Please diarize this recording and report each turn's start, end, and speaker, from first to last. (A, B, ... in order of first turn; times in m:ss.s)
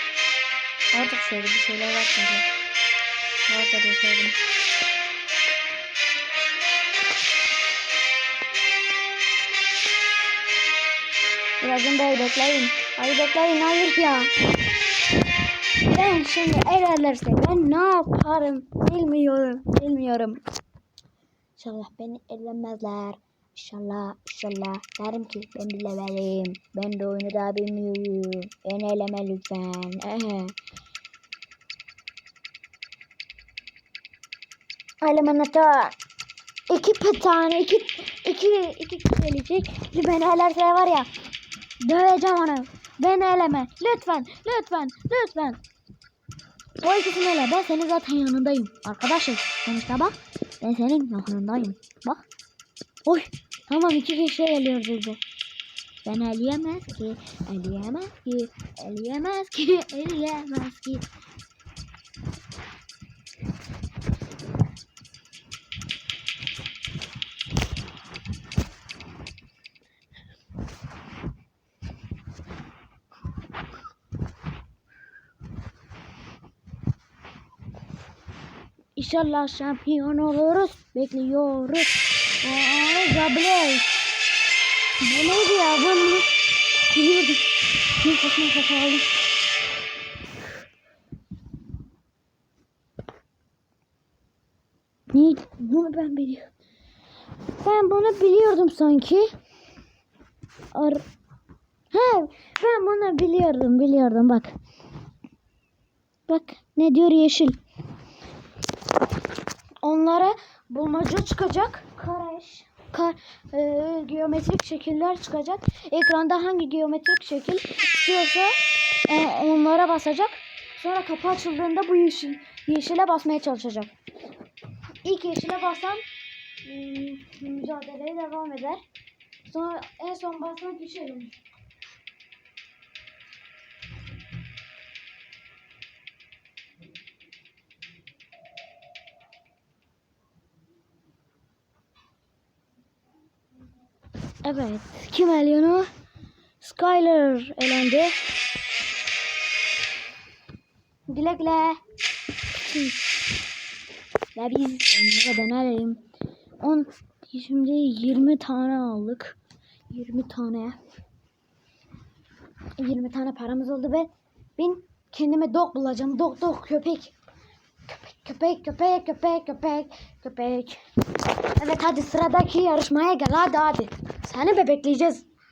0:00.9-0:02.5 A
0:03.5-0:04.4 A
0:11.6-0:14.3 A
0:15.8-0:20.4 A
0:21.6-0:30.5 A
0:35.0-0:35.9 A
0:36.7-0:41.1 A
0:41.8-0:45.6 A
0:46.8-0:52.2 A
0:53.0-0:55.2 A
0:56.0-1:01.1 A
1:19.0-1:23.9 A
1:25.0-1:26.3 A
1:26.9-1:29.1 A
1:35.1-1:36.5 A
1:37.6-1:39.3 A
1:40.7-1:41.0 A
1:41.9-1:44.5 A
1:46.3-1:47.6 A
1:49.8-2:03.9 A
2:05.0-2:06.0 A
2:06.6-2:08.8 A
2:09.4-2:11.4 A
2:24.4-2:25.9 A
2:26.6-2:28.1 A
2:31.1-2:31.8 A
2:32.5-2:33.0 A
2:34.3-2:36.0 A
2:36.6-2:39.4 A
2:39.9-2:40.8 A
2:42.8-2:47.1 A
2:47.9-2:50.8 A
2:51.6-2:55.2 A